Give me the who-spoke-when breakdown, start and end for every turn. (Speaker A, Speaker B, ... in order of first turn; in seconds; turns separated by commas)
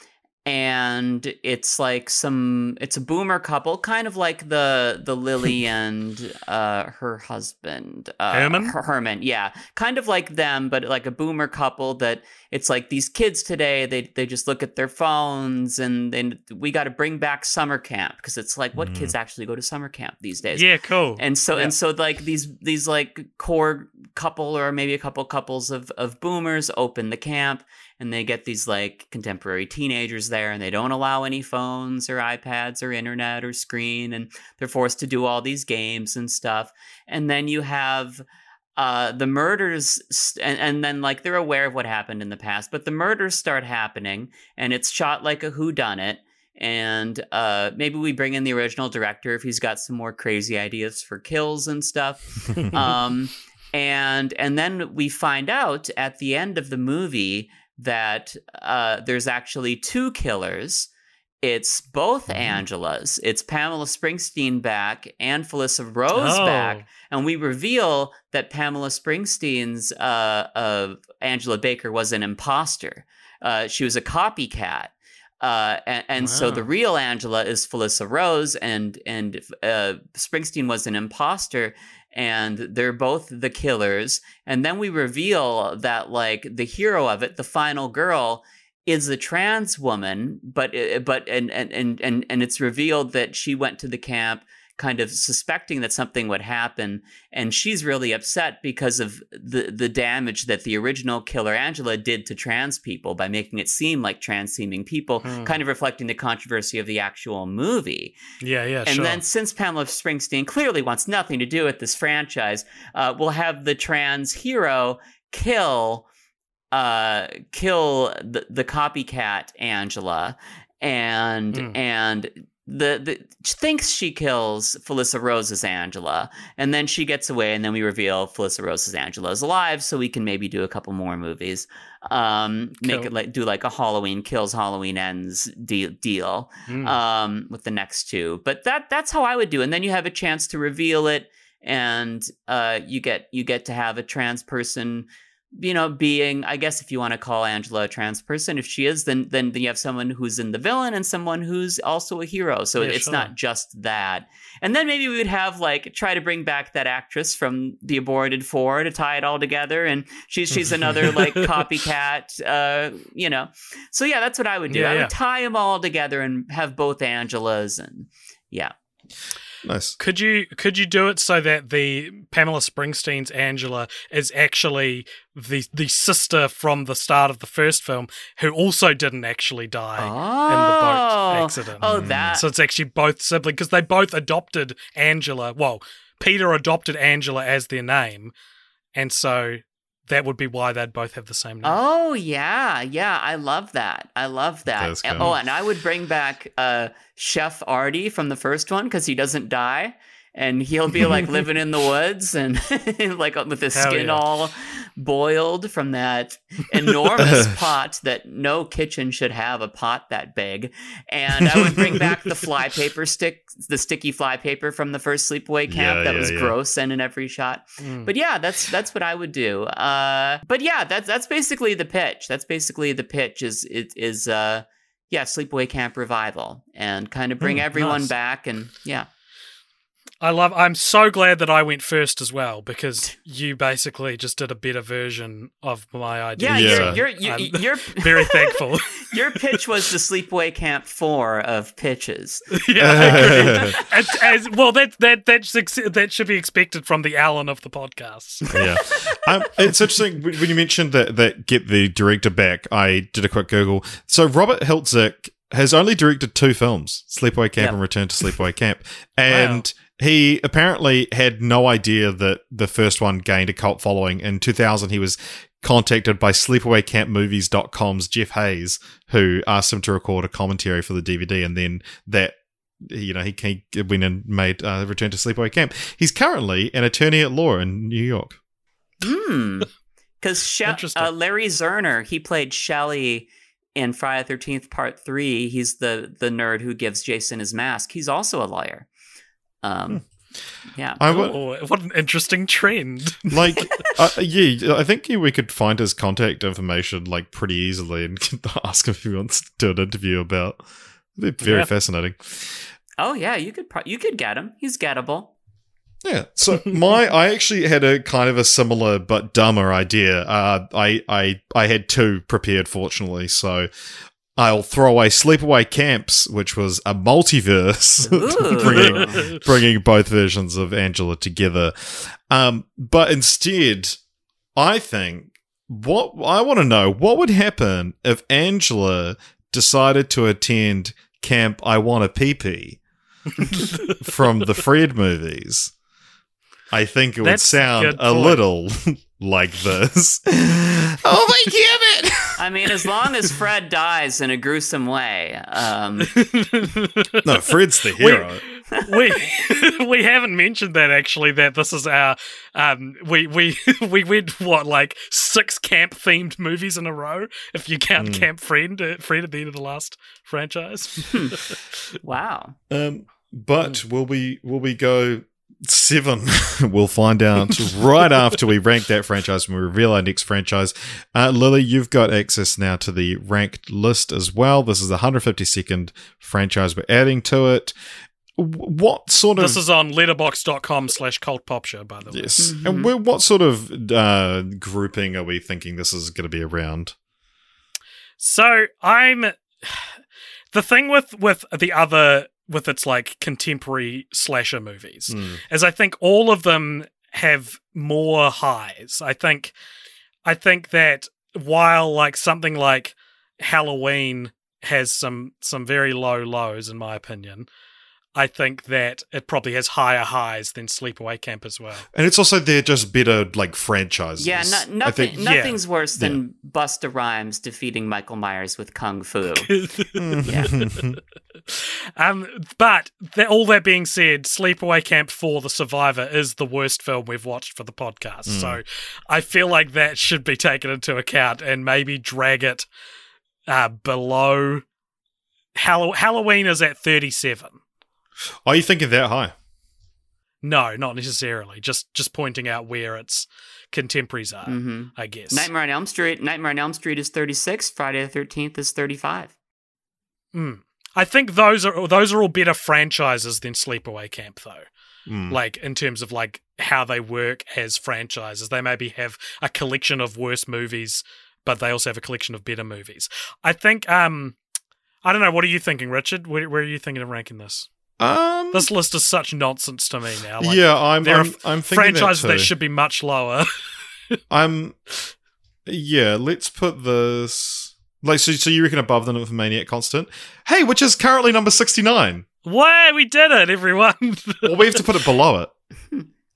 Speaker A: 0.4-38.2, Speaker B: 8.3-8.7, Speaker C: 18.8-19.1, Speaker B: 20.6-21.7, Speaker A: 38.8-60.9, Speaker B: 52.6-52.9, Speaker A: 61.4-108.2, Speaker B: 66.1-66.8, Speaker B: 76.2-76.6, Speaker B: 105.2-105.5, Speaker B: 108.4-109.2, Speaker A: 108.8-116.1, Speaker A: 116.7-168.7, Speaker B: 132.8-133.1, Speaker B: 136.7-136.9, Speaker B: 152.8-153.3, Speaker B: 161.1-161.4, Speaker B: 164.7-165.1, Speaker C: 169.6-170.0, Speaker B: 170.0-188.3, Speaker A: 180.0-182.4, Speaker C: 181.8-182.4, Speaker B: 188.9-191.8, Speaker A: 191.6-229.1, Speaker C: 194.7-195.3, Speaker B: 203.7-204.2, Speaker C: 215.7-216.5, Speaker B: 217.8-218.1, Speaker B: 227.7-228.1, Speaker B: 230.2-239.6, Speaker A: 236.4-243.8, Speaker C: 236.5-237.0, Speaker B: 242.6-248.6, Speaker C: 242.8-243.8, Speaker C: 248.5-278.4, Speaker B: 259.3-259.6, Speaker A: 279.0-279.7, Speaker A: 280.2-288.9, Speaker B: 280.6-281.1, Speaker A: 289.6-290.0, Speaker A: 290.7-291.0, Speaker C: 291.0-291.3, Speaker B: 291.1-293.3, Speaker C: 293.3-300.6, Speaker C: 301.2-302.6, Speaker B: 301.4-301.7, Speaker A: 303.0-305.3, Speaker C: 306.0-313.7, Speaker C: 314.3-324.0, Speaker A: 318.0-319.2, Speaker B: 318.6-319.4, Speaker C: 324.6-332.8, Speaker B: 333.5-333.9, Speaker C: 333.8-335.7, Speaker C: 336.7-342.4, Speaker B: 337.2-338.4, Speaker A: 342.4-346.1, Speaker B: 346.0-347.3, Speaker C: 347.2-348.4, Speaker B: 347.9-361.6, Speaker A: 348.7-349.2, Speaker C: 358.0-358.3, Speaker A: 361.1-361.4, Speaker A: 362.0-362.5, Speaker C: 362.7-377.7, Speaker C: 378.3-379.6, Speaker B: 379.4-382.5, Speaker C: 382.1-386.9, Speaker A: 382.4-382.9, Speaker B: 388.2-390.0, Speaker B: 390.5-399.5, Speaker C: 395.1-395.4, Speaker B: 400.2-407.4, Speaker B: 408.1-411.9, Speaker C: 411.9-415.2, Speaker A: 414.2-419.5, Speaker B: 415.2-415.6, Speaker B: 419.4-420.8, Speaker C: 419.9-421.0, Speaker A: 420.3-420.5, Speaker B: 421.5-432.6, Speaker C: 428.3-428.6, Speaker B: 433.5-434.6, Speaker B: 435.5-437.6, Speaker C: 438.4-439.3, Speaker B: 440.4-445.5, Speaker A: 444.4-449.3, Speaker B: 450.3-454.7, Speaker C: 455.1-455.4, Speaker B: 455.3-464.4, Speaker B: 465.0-467.7, Speaker C: 468.0-468.7, Speaker B: 468.5-473.5, Speaker C: 470.4-472.5, Speaker C: 474.3-474.8, Speaker C: 475.6-482.2, Speaker B: 482.4-485.0, Speaker C: 484.4-485.5